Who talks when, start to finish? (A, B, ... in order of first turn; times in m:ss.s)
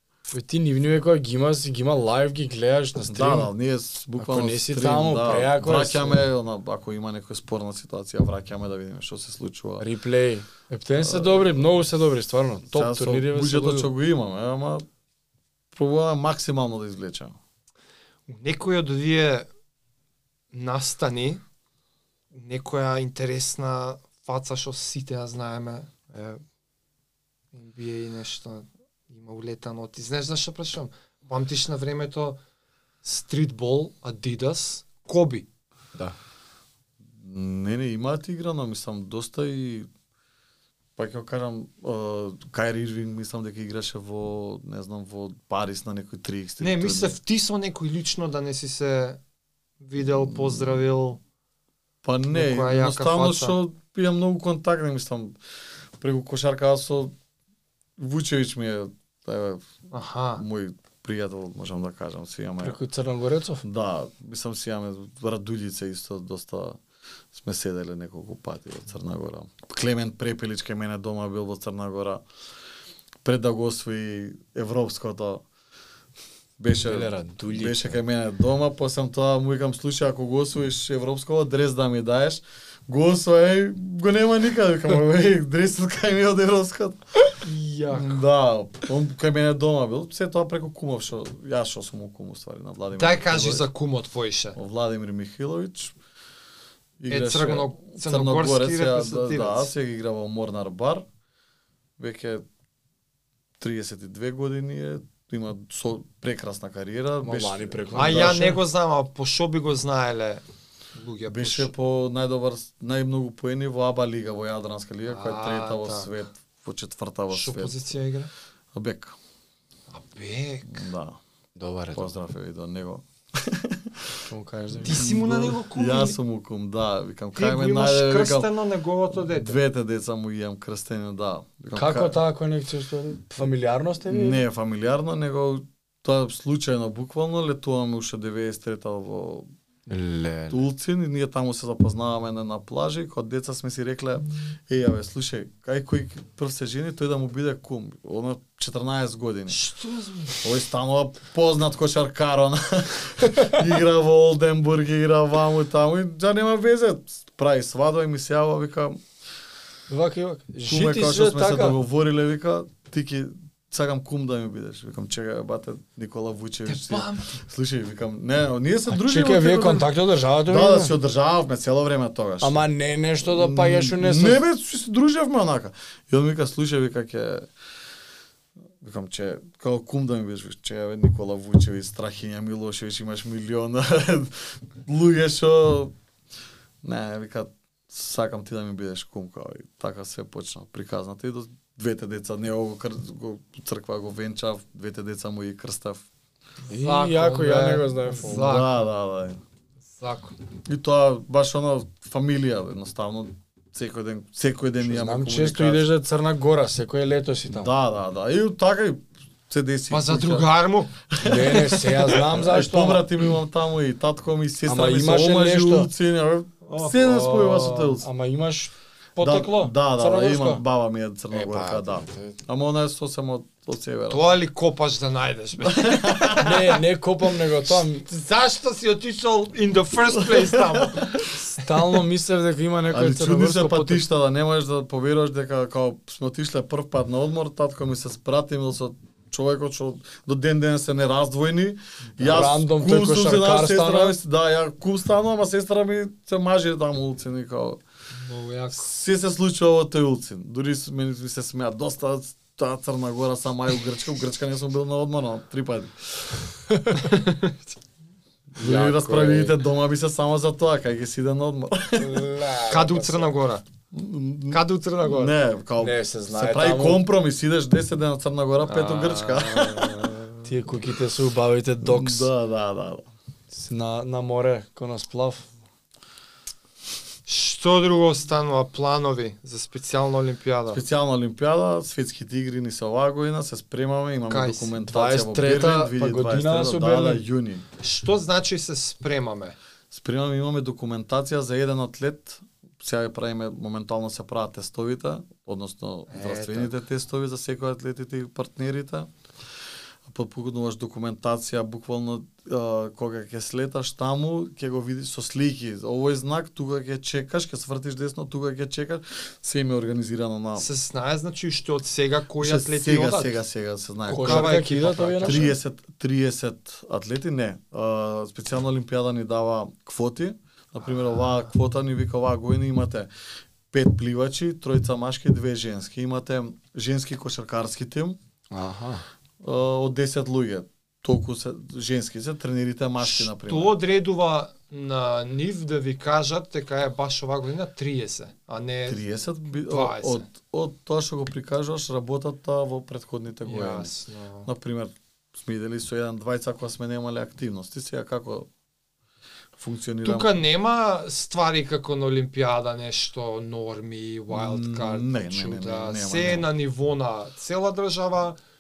0:00.3-0:03.5 A
0:03.1-0:09.9 B
0:04.2-0:06.3 A
0:09.8-0:13.9 A
0:11.0-0:11.6 B
0:12.7-0:14.8 B
0:15.7-0:17.4 B
0:18.3-0:19.5 C
0:20.5-0:21.4 C
0:22.3-0:26.4 C
0:27.5-0:32.4 C
0:33.0-0:35.4 C
0:37.2-0:39.9 B
0:41.0-0:47.2 B
0:46.6-0:49.2 C
0:49.8-0:51.2 C
0:52.0-0:55.4 B
0:52.3-0:53.6 C
0:56.0-0:57.1 B
0:58.0-0:59.7 B
0:59.9-1:00.4 C
1:00.4-1:02.8 B
1:02.6-1:03.6 A
1:03.6-1:06.8 B
1:07.3-1:12.2 B
1:13.2-1:15.4 B
1:16.6-1:27.0 B
1:16.8-1:18.0 A
1:27.3-1:28.2 C
1:27.9-1:33.7 B
1:33.0-1:34.6 C
1:34.5-1:36.0 B
1:37.0-1:41.0 B
1:37.1-1:39.7 C
1:42.0-1:42.4 B
1:43.6-1:48.6 B
1:47.2-1:48.5 A
1:47.9-1:50.4 C
1:50.9-1:51.7 C
1:51.3-1:57.8 B
1:55.1-1:56.1 C
1:57.3-1:58.3 C
1:58.7-1:59.2 B
1:59.9-2:00.8 C
2:00.7-2:01.2 B
2:01.6-2:02.1 A
2:01.9-2:04.2 B
2:04.2-2:05.0 A
2:04.8-2:06.2 C
2:04.8-2:08.5 B
2:07.3-2:09.6 C
2:09.3-2:12.2 B
2:11.7-2:14.4 A
2:14.1-2:19.5 B
2:19.9-2:20.6 A
2:20.5-2:29.6 B
2:29.5-2:30.5 C
2:30.4-2:39.0 B
2:39.9-2:41.8 A
2:40.6-2:49.9 B
2:46.7-2:47.4 C
2:48.9-2:50.9 A
2:50.4-2:52.6 B
2:52.4-2:54.4 A
2:53.2-2:57.5 B
2:58.8-3:05.9 B
3:06.8-3:16.0 B
3:16.7-3:18.6 A
3:16.7-3:18.9 C
3:18.3-3:19.4 B
3:20.0-3:20.4 C
3:20.7-3:25.9 B
3:24.8-3:27.7 A
3:27.5-3:30.5 B
3:29.9-3:30.9 C
3:31.1-3:38.1 B
3:31.2-3:33.0 A
3:34.6-3:35.9 A
3:36.7-3:38.0 C
3:38.0-3:40.6 A
3:39.2-3:44.3 B
3:41.3-3:42.4 A
3:44.1-3:46.6 C
3:45.6-3:46.6 B
3:46.3-3:48.0 A
3:47.7-3:51.6 C
3:50.1-3:51.2 B
3:51.6-3:54.0 A
3:52.9-4:07.8 B
4:02.2-4:04.2 A
4:08.2-4:08.9 C
4:08.7-4:16.3 B
4:16.7-4:17.1 A
4:17.0-4:17.5 C
4:18.6-4:19.6 A
4:18.6-4:22.3 B
4:22.0-4:23.3 A
4:22.7-4:23.6 C
4:23.9-4:30.3 B
4:24.5-4:25.3 C
4:25.8-4:27.0 A
4:28.6-4:30.2 C
4:30.4-4:32.3 A
4:31.8-4:33.1 B
4:33.5-4:35.4 A
4:37.2-4:40.8 C
4:40.7-4:47.6 B
4:44.3-4:44.8 C
4:44.8-4:47.2 A
4:47.8-4:49.6 C
4:49.9-4:59.1 B
4:56.1-4:56.8 C
5:00.1-5:10.7 B
5:10.6-5:13.4 C
5:12.4-5:23.1 B
5:14.1-5:15.4 A
5:14.1-5:15.6 C
5:23.7-5:28.2 B
5:28.5-5:29.0 A
5:29.4-5:33.8 B
5:33.0-5:39.0 C
5:38.9-5:43.9 B
5:39.6-5:40.3 C
5:43.4-5:44.5 C
5:44.4-5:48.5 B
5:49.6-5:50.4 B
5:50.0-5:58.4 C
5:54.3-5:56.5 B